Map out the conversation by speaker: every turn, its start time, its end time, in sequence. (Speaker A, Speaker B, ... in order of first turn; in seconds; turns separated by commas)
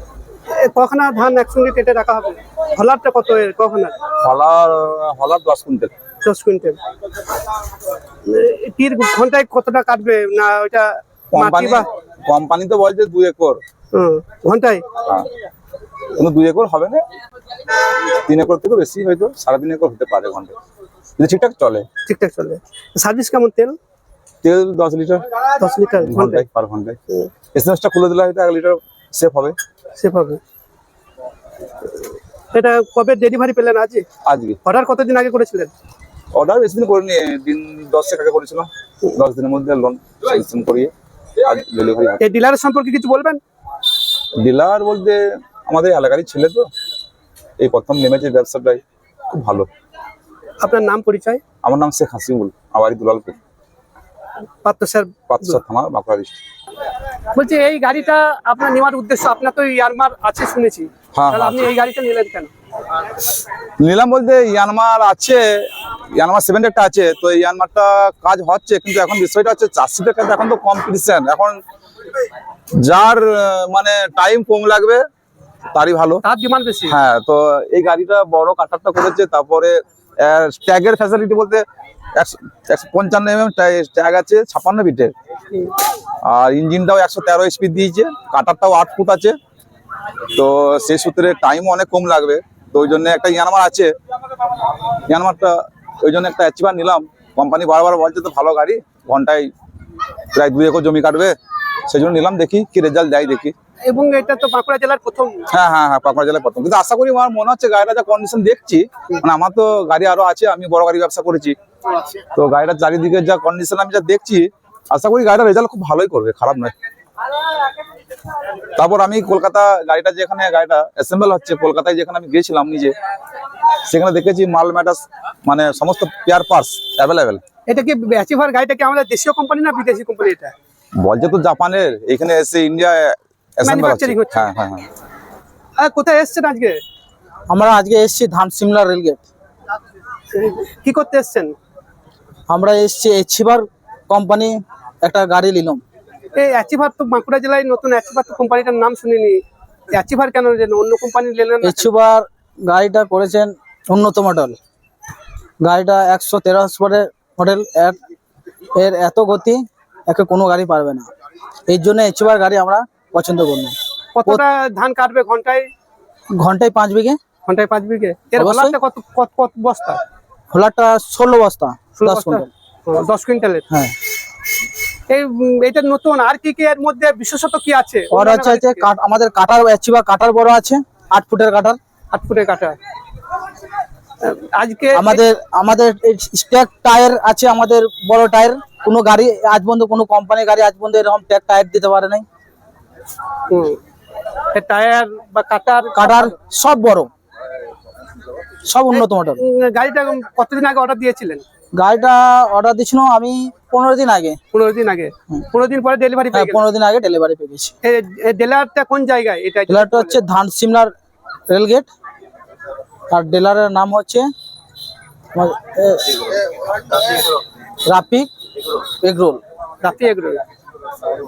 Speaker A: 0.6-4.0, Speaker B: 4.2-5.9, Speaker A: 6.2-6.8, Speaker A: 8.2-11.8, Speaker B: 11.3-13.6, Speaker A: 13.9-14.8, Speaker B: 16.1-17.0, Speaker B: 18.1-20.5, Speaker B: 21.2-21.9, Speaker A: 22.1-23.8, Speaker B: 24.4-25.2, Speaker A: 25.6-26.4, Speaker B: 26.0-27.0, Speaker B: 27.5-29.6, Speaker A: 30.0-30.4, Speaker A: 32.5-34.0, Speaker B: 34.2-34.6, Speaker A: 34.6-35.7, Speaker B: 36.3-42.2, Speaker A: 42.2-43.4, Speaker B: 44.4-46.7, Speaker B: 47.6-48.8, Speaker B: 49.3-49.7, Speaker A: 50.6-51.4, Speaker B: 51.6-53.4, Speaker A: 54.6-55.6, Speaker B: 55.3-56.4, Speaker A: 57.3-62.5, Speaker B: 61.1-61.7, Speaker B: 63.8-65.4, Speaker B: 66.1-71.6, Speaker B: 72.8-75.0, Speaker B: 75.7-76.2, Speaker A: 76.2-76.9, Speaker B: 76.9-81.6, Speaker B: 82.2-85.1, Speaker B: 86.2-89.3, Speaker B: 90.3-93.9, Speaker B: 95.1-99.5, Speaker B: 100.3-101.3, Speaker B: 101.9-103.5, Speaker A: 103.8-105.4, Speaker B: 105.5-111.5, Speaker B: 112.3-116.7, Speaker B: 118.8-122.9, Speaker B: 123.8-127.4, Speaker A: 127.7-130.5, Speaker B: 131.0-134.9, Speaker A: 133.6-134.5, Speaker A: 135.8-136.8, Speaker C: 137.5-139.2, Speaker A: 140.3-141.5, Speaker C: 142.5-145.8, Speaker A: 146.3-151.9, Speaker C: 151.6-154.6, Speaker C: 155.6-158.0, Speaker C: 158.7-161.1, Speaker C: 161.7-163.7, Speaker A: 164.2-165.7, Speaker C: 166.4-167.2, Speaker A: 167.5-170.0, Speaker C: 168.4-168.8, Speaker C: 170.5-172.5, Speaker A: 171.9-173.6, Speaker A: 175.1-178.8, Speaker C: 178.1-181.8, Speaker A: 182.1-182.8, Speaker A: 184.2-185.2, Speaker C: 184.9-192.2, Speaker A: 193.5-193.8, Speaker A: 194.5-196.3, Speaker C: 195.9-197.1, Speaker C: 198.7-199.4, Speaker A: 198.9-201.4, Speaker C: 201.7-204.4, Speaker A: 204.5-206.6, Speaker C: 206.3-207.7, Speaker A: 207.8-210.1, Speaker C: 209.7-210.9, Speaker C: 211.5-211.9, Speaker C: 213.1-214.3, Speaker C: 215.3-217.2, Speaker C: 217.8-218.3, Speaker C: 219.0-219.4, Speaker A: 219.8-220.4